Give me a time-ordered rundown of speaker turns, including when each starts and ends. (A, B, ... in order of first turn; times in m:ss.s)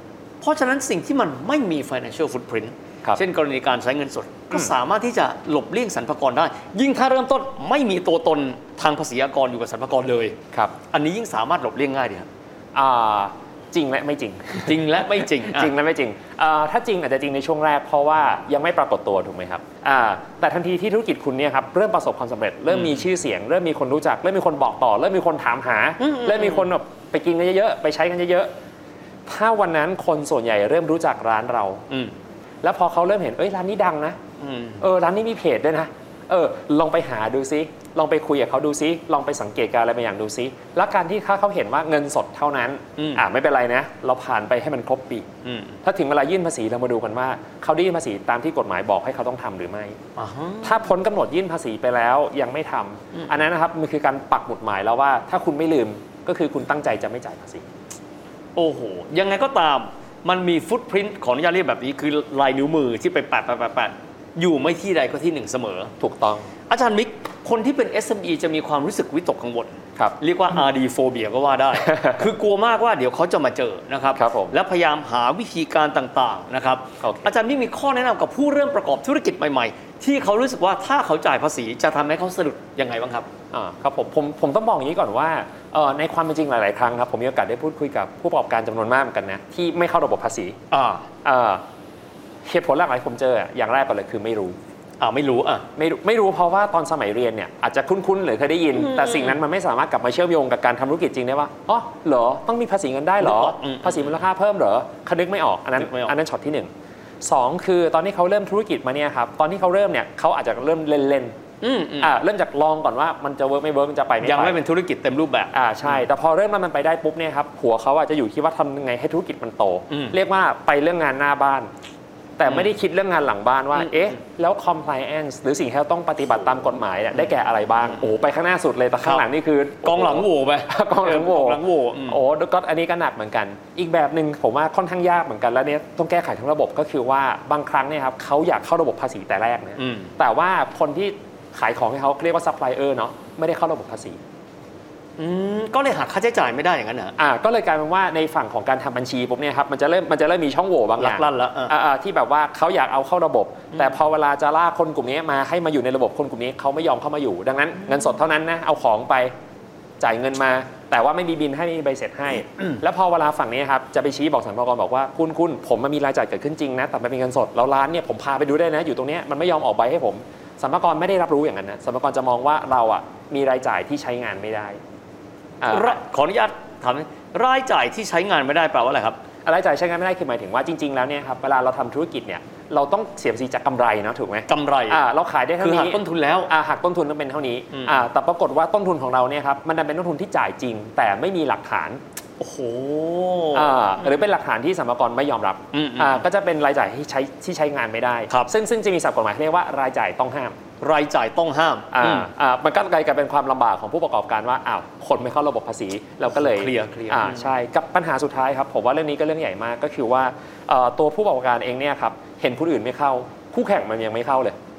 0:00.4-0:10.4 A
0:10.9-0:12.3 A
0:12.7-0:28.5 B
0:14.6-0:15.7 A
0:22.7-0:23.0 A
0:26.0-0:26.7 A
0:29.3-0:31.8 B
0:32.6-0:34.2 B
0:34.4-0:34.8 A
0:34.8-0:45.3 B
0:43.0-0:43.2 A
0:45.4-0:45.8 A
0:45.8-0:50.0 B
0:50.2-0:50.8 A
0:50.6-0:57.6 B
0:58.6-1:05.9 A
1:06.0-1:06.5 B
1:06.7-1:23.3 A
1:11.9-1:12.2 B
1:14.1-1:14.6 B
1:17.0-1:17.3 B
1:23.5-1:30.6 B
1:30.7-1:31.0 A
1:31.2-1:31.6 B
1:32.4-1:34.6 B
1:35.0-1:35.6 A
1:35.8-1:46.7 B
1:38.8-1:39.4 A
1:43.2-1:44.1 A
1:45.8-1:46.1 A
1:47.2-1:51.4 B
1:51.6-1:52.1 A
1:52.0-1:54.6 B
1:54.2-1:56.0 A
1:55.5-2:01.7 B
2:02.4-2:24.2 B
2:09.8-2:12.2 A
2:19.8-2:20.1 A
2:25.2-2:27.2 A
2:27.2-2:39.3 B
2:31.0-2:31.7 A
2:40.0-2:54.8 B
2:55.6-2:56.0 B
2:55.7-2:59.2 A
2:59.4-3:12.0 B
3:04.5-3:05.0 A
3:05.6-3:06.5 A
3:12.4-3:13.9 A
3:13.5-3:20.6 B
3:15.7-3:16.2 A
3:20.8-3:22.3 A
3:21.9-3:34.6 B
3:26.3-3:27.5 A